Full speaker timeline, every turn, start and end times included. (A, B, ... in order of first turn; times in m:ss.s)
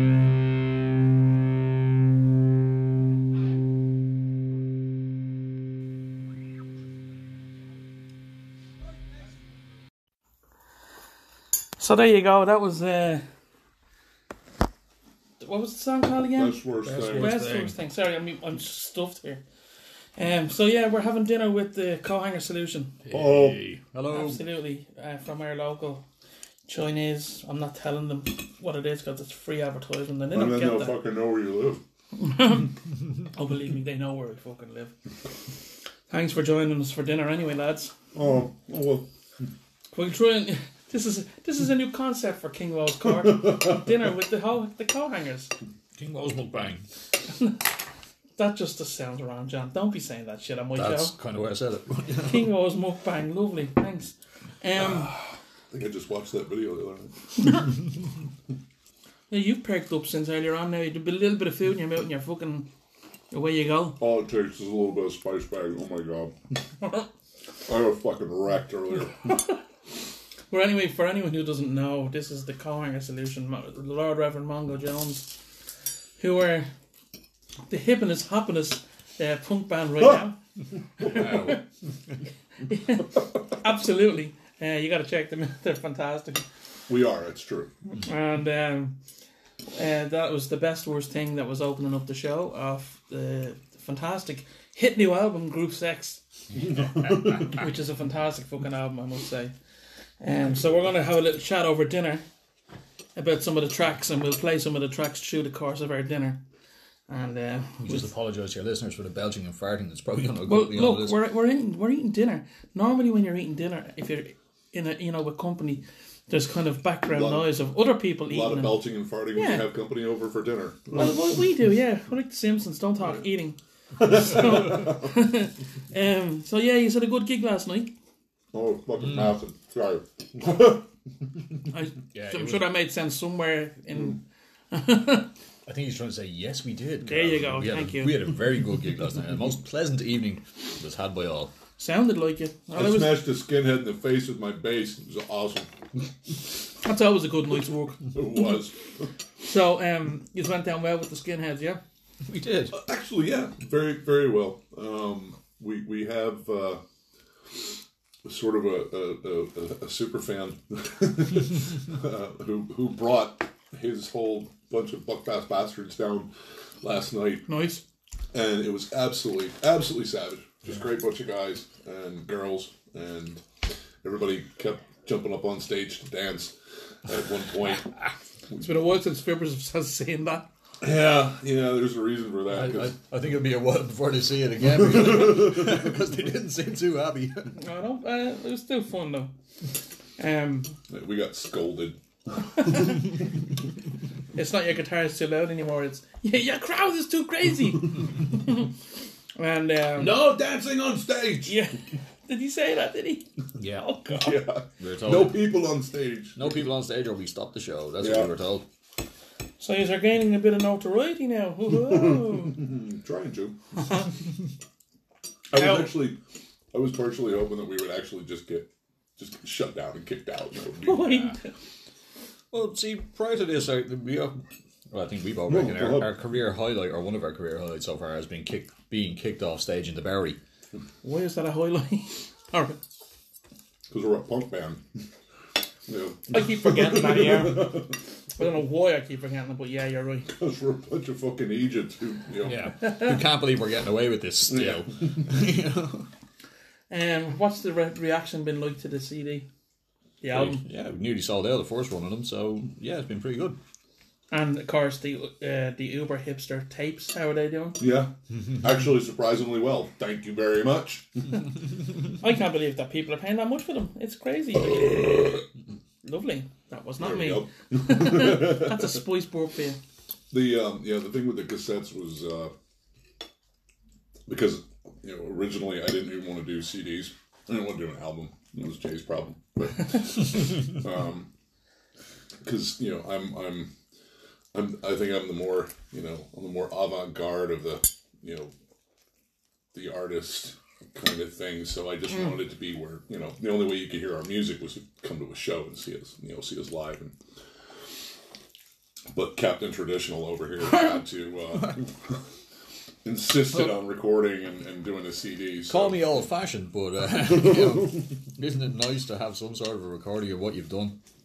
0:11.8-0:13.2 A
0:15.4-0:19.4 A
0:16.4-0:17.4 B
0:16.8-0:17.8 C
0:20.2-0:23.0 A
0:23.0-0:24.4 C
0:23.1-0:23.6 B
0:24.1-0:26.0 A
0:26.7-0:31.0 A
0:30.3-0:31.8 B
0:32.2-0:32.7 A
0:33.3-0:34.9 A
0:36.1-0:37.9 A
0:38.1-0:39.1 B
0:39.9-0:45.5 A
0:43.4-0:43.8 B
0:46.0-0:46.8 C
0:48.4-0:51.1 A
0:50.7-0:52.5 C
0:52.2-0:55.2 A
0:54.8-0:57.7 B
0:59.3-1:02.7 A
1:03.3-1:04.0 A
1:04.0-1:06.4 B
1:07.6-1:09.2 B
1:10.5-1:15.4 A
1:16.2-1:16.7 A
1:17.7-1:20.4 A
1:21.0-1:21.6 C
1:21.0-1:21.6 A
1:22.6-1:26.4 A
1:26.9-1:27.7 B
1:28.0-1:28.9 A
1:29.7-1:39.5 A
1:36.6-1:37.6 B
1:40.2-1:42.2 A
1:43.1-1:46.4 A
1:47.1-1:48.1 A
1:47.8-1:51.2 C
1:50.4-1:58.8 A
1:57.1-1:57.5 B
1:58.3-2:01.3 B
1:59.3-1:59.6 A
2:00.9-2:07.9 A
2:04.0-2:05.1 B
2:08.5-2:10.8 B
2:11.7-2:14.2 A
2:12.1-2:12.6 C
2:14.7-2:15.3 A
2:15.6-2:21.5 C
2:17.0-2:18.2 A
2:21.8-2:23.2 A
2:22.7-2:26.1 B
2:26.8-2:28.2 A
2:28.1-2:29.1 B
2:29.4-2:31.8 A
2:32.2-2:32.8 C
2:32.7-2:36.8 B
2:38.2-2:47.5 B
2:47.5-2:47.8 A
2:48.3-2:53.4 B
2:54.0-2:56.5 B
2:57.0-2:57.9 B
2:58.6-3:00.4 A
3:00.8-3:03.0 B
3:02.5-3:07.6 C
3:05.1-3:05.8 B
3:07.5-3:09.3 A
3:10.2-3:10.8 A
3:10.9-3:13.0 B
3:12.6-3:12.8 A
3:14.3-3:18.7 A
3:19.4-3:20.2 A
3:20.0-3:21.6 B
3:21.4-3:24.4 A
3:23.6-3:23.9 C
3:24.1-3:26.6 B
3:24.8-3:25.4 C
3:26.4-3:28.6 C
3:28.0-3:28.3 B
3:29.6-3:32.6 A
3:31.8-3:33.6 B
3:35.5-3:36.2 B
3:35.5-3:35.9 A
3:36.7-3:41.2 B
3:40.8-3:41.5 A
3:41.0-3:41.3 C
3:42.5-3:44.4 C
3:44.9-3:50.4 C
3:45.5-3:46.2 B
3:51.0-3:52.8 A
3:53.9-3:54.8 B
3:55.8-3:58.0 B
3:56.3-3:57.8 A
3:58.4-4:00.3 A
4:00.3-4:02.8 B
4:02.4-4:06.1 C
4:04.5-4:05.3 B
4:06.9-4:09.5 A
4:10.2-4:10.6 A
4:10.3-4:13.6 C
4:14.3-4:17.8 A
4:17.8-4:21.4 B
4:22.2-4:25.4 A
4:24.6-4:25.4 B
4:26.0-4:29.8 A
4:27.0-4:29.0 B
4:30.3-4:32.5 B
4:34.3-4:41.3 B
4:42.4-4:43.7 B
4:44.5-4:48.5 B
4:49.7-4:57.1 B
4:59.1-5:02.2 B
5:03.0-5:06.1 B
5:05.7-5:11.0 C